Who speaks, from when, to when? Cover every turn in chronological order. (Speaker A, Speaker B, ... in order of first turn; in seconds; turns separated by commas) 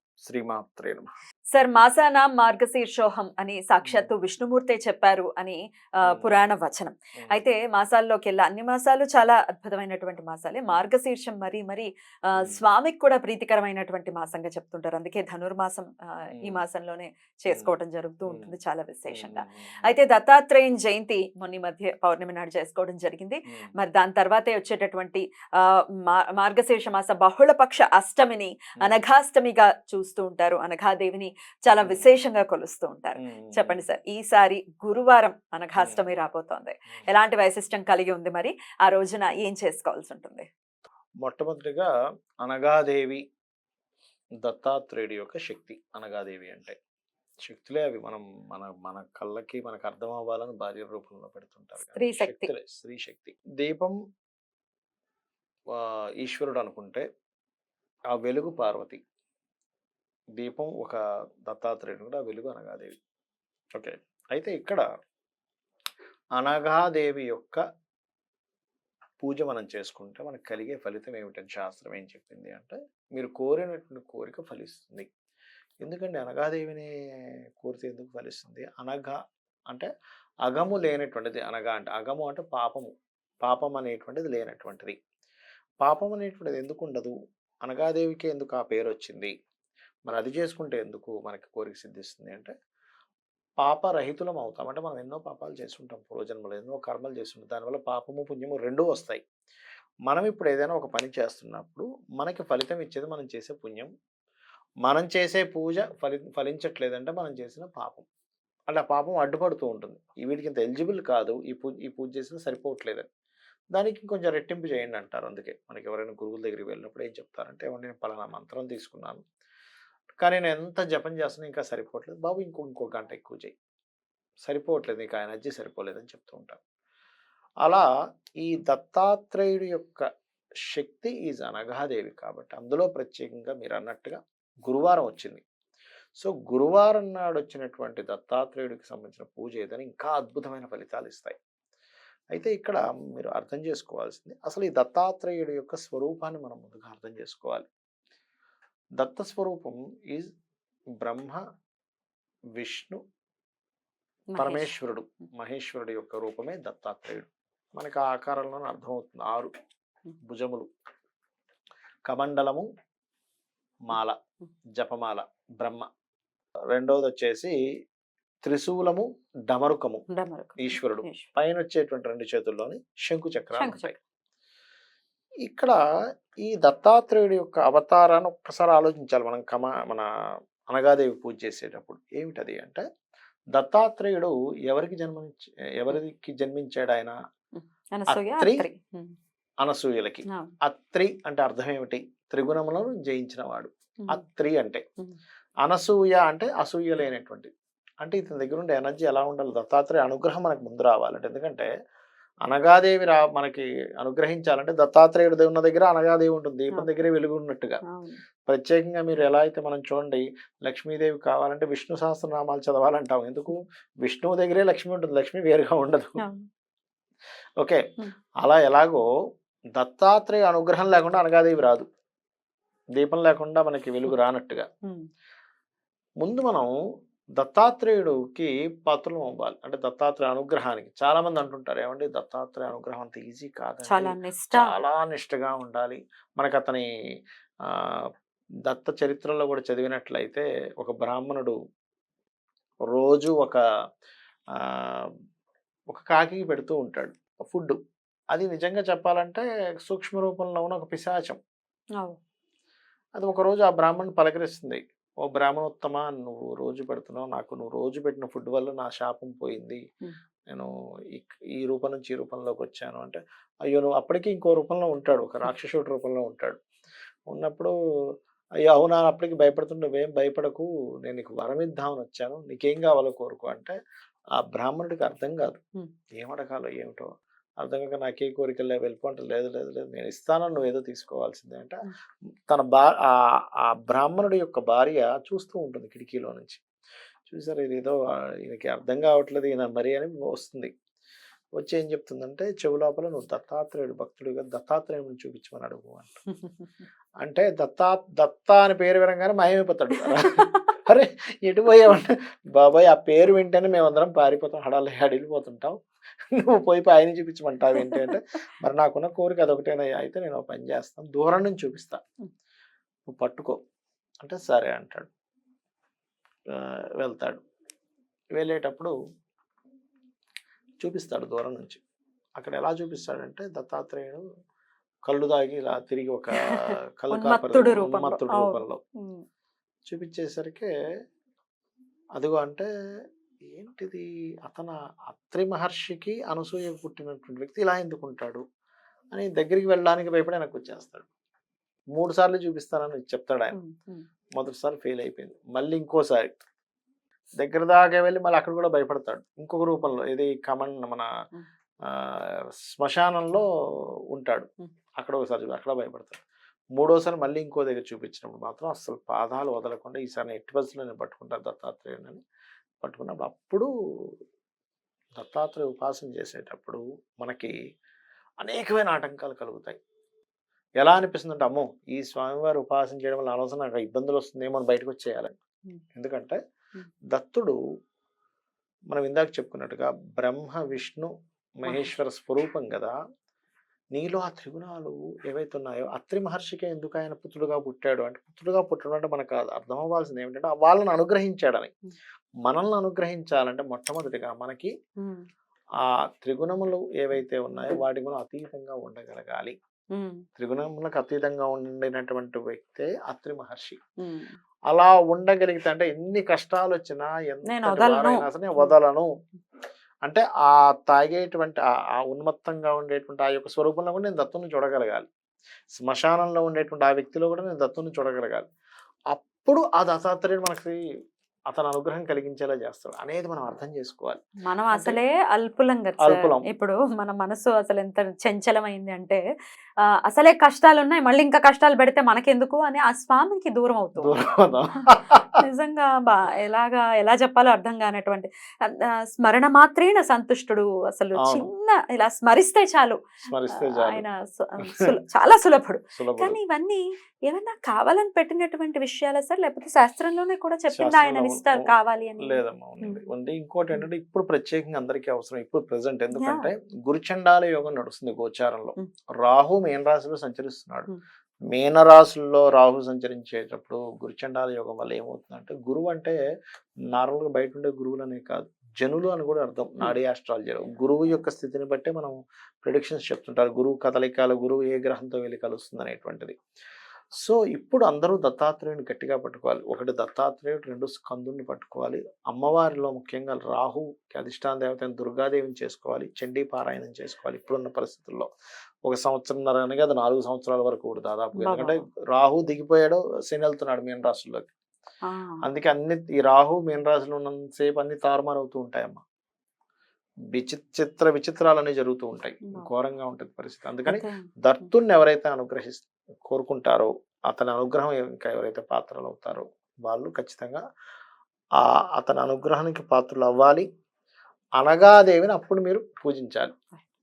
Speaker A: 0.2-1.1, Speaker B: 1.5-40.5, Speaker A: 3.8-4.1, Speaker A: 6.0-6.3, Speaker A: 12.4-12.6, Speaker A: 16.3-16.6, Speaker A: 17.5-17.8, Speaker A: 18.3-18.5, Speaker A: 19.1-19.9, Speaker A: 31.8-32.1, Speaker A: 33.2-33.8, Speaker A: 35.8-36.0, Speaker A: 41.2-41.9, Speaker A: 42.4-43.2, Speaker A: 44.4-46.8, Speaker A: 47.4-53.9, Speaker B: 51.8-52.5, Speaker A: 55.7-57.0, Speaker A: 58.1-59.0, Speaker A: 60.4-63.0, Speaker A: 63.7-64.8, Speaker A: 66.4-67.6, Speaker A: 69.2-75.1, Speaker A: 75.8-76.9, Speaker A: 77.6-79.1, Speaker A: 80.4-82.9, Speaker A: 83.4-85.0, Speaker A: 85.8-87.1, Speaker A: 87.6-89.3, Speaker A: 90.1-92.5, Speaker A: 93.6-99.2, Speaker A: 100.1-103.9, Speaker A: 104.8-108.0, Speaker A: 108.7-113.1, Speaker A: 113.7-119.2, Speaker A: 120.2-123.5, Speaker A: 124.4-126.6, Speaker A: 127.6-127.9, Speaker A: 128.4-130.1, Speaker A: 130.7-135.4, Speaker A: 136.2-141.4, Speaker A: 142.3-147.7, Speaker A: 149.0-150.3, Speaker A: 151.0-151.4, Speaker A: 152.6-153.0, Speaker B: 154.3-154.7, Speaker A: 154.4-159.5, Speaker A: 160.2-160.7, Speaker A: 162.1-162.7, Speaker A: 163.9-164.2, Speaker A: 164.8-165.9, Speaker A: 166.7-167.6, Speaker A: 168.4-170.0, Speaker B: 170.1-171.3, Speaker A: 170.6-173.9, Speaker B: 173.6-173.9, Speaker A: 175.4-175.8, Speaker A: 176.4-180.1, Speaker A: 180.7-182.8, Speaker A: 183.5-187.2, Speaker B: 187.6-189.2, Speaker A: 188.1-188.7, Speaker A: 189.6-194.8, Speaker A: 195.6-197.5, Speaker A: 198.0-201.7, Speaker A: 202.5-207.8, Speaker B: 207.9-208.2, Speaker A: 208.5-216.2, Speaker B: 216.2-216.5, Speaker A: 218.4-219.1, Speaker A: 219.8-221.9, Speaker A: 223.0-224.7, Speaker A: 226.2-226.7, Speaker A: 227.4-236.8, Speaker B: 233.9-234.7, Speaker A: 237.7-238.1, Speaker A: 238.7-241.6, Speaker A: 242.9-243.6, Speaker A: 244.7-245.1, Speaker A: 245.9-247.8, Speaker A: 248.3-251.4, Speaker A: 253.2-259.8, Speaker A: 260.5-266.6, Speaker A: 267.3-267.7, Speaker A: 268.7-273.8, Speaker A: 274.4-275.6, Speaker A: 276.2-281.8, Speaker A: 282.5-286.6, Speaker A: 287.3-290.7, Speaker A: 291.6-296.1, Speaker B: 296.4-296.7, Speaker A: 297.2-305.8, Speaker B: 299.9-300.6, Speaker A: 306.3-312.0, Speaker B: 307.8-308.1, Speaker A: 313.1-313.6, Speaker A: 314.2-315.1, Speaker A: 316.5-317.4, Speaker A: 318.4-318.9, Speaker A: 320.8-321.8, Speaker A: 322.4-324.2, Speaker A: 325.1-328.8, Speaker B: 327.1-329.2, Speaker A: 329.9-330.7, Speaker A: 332.2-332.7, Speaker A: 333.4-338.4, Speaker A: 339.1-341.1, Speaker A: 341.9-343.6, Speaker B: 343.5-344.1, Speaker A: 344.4-346.4, Speaker A: 347.4-351.1, Speaker A: 351.9-353.4, Speaker A: 354.1-354.5, Speaker A: 355.0-356.2, Speaker A: 356.8-362.2, Speaker A: 362.8-364.1, Speaker A: 365.1-367.5, Speaker A: 368.4-369.8, Speaker A: 370.8-375.3, Speaker A: 375.9-376.4, Speaker A: 377.1-377.6, Speaker A: 378.9-382.9, Speaker B: 381.7-381.9, Speaker A: 383.9-391.7, Speaker A: 392.4-394.7, Speaker B: 395.0-395.2, Speaker A: 395.8-399.6, Speaker B: 399.9-400.2, Speaker A: 400.4-403.8, Speaker B: 404.0-404.4, Speaker A: 404.7-409.1, Speaker B: 407.5-408.7, Speaker A: 410.0-415.1, Speaker A: 415.7-418.4, Speaker A: 419.1-420.8, Speaker A: 421.5-424.2, Speaker B: 424.4-429.2, Speaker A: 424.7-425.0, Speaker A: 426.0-426.4, Speaker B: 429.8-434.2, Speaker A: 434.0-435.4, Speaker B: 435.4-443.0, Speaker A: 441.2-441.5, Speaker A: 443.2-444.0, Speaker B: 443.5-453.0, Speaker A: 445.9-446.4, Speaker A: 450.7-451.6, Speaker A: 452.2-460.9, Speaker B: 456.1-456.5, Speaker A: 461.5-466.2, Speaker A: 466.9-476.4, Speaker A: 477.2-488.3, Speaker A: 488.9-494.5, Speaker B: 491.4-491.8, Speaker B: 495.1-495.4, Speaker A: 495.4-499.0, Speaker A: 500.3-510.6, Speaker B: 503.9-504.3, Speaker A: 511.6-513.6, Speaker A: 514.6-516.5